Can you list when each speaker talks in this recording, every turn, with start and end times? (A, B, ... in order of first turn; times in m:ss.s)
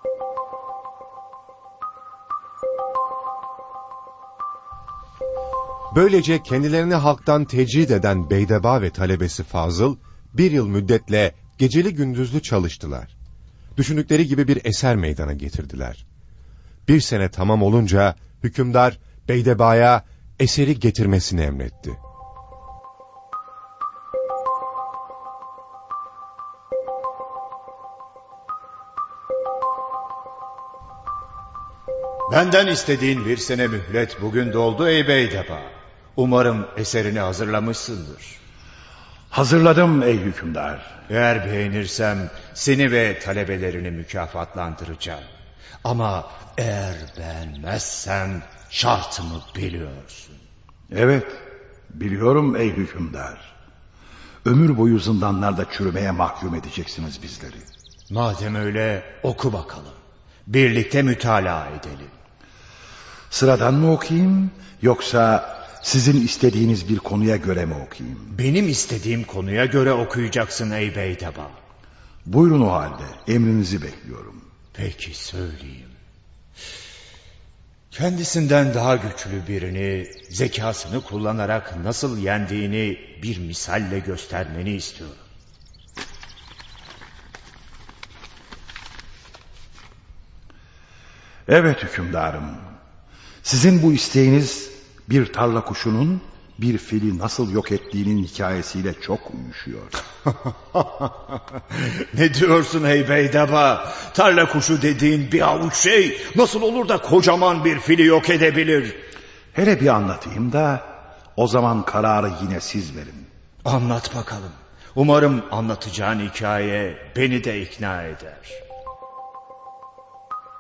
0:05.9-0:13.1 A
0:13.8-0:16.0 A
0:16.9-0:22.0 A
0:32.3-0:38.4 B
0:39.3-0:41.0 C
0:41.1-0:45.3 B
0:45.8-0:50.4 B
0:50.9-0:53.5 C
0:54.4-0:57.7 C
0:58.1-1:02.2 B
1:03.3-1:08.3 C
1:08.3-1:11.6 B
1:12.3-1:14.4 C
1:14.8-1:16.0 B
1:17.9-1:25.2 B
1:31.5-1:32.6 C
1:33.4-1:40.0 C
1:40.8-1:41.1 B
1:41.7-1:49.0 B
1:49.5-1:53.3 C
1:53.6-1:58.6 B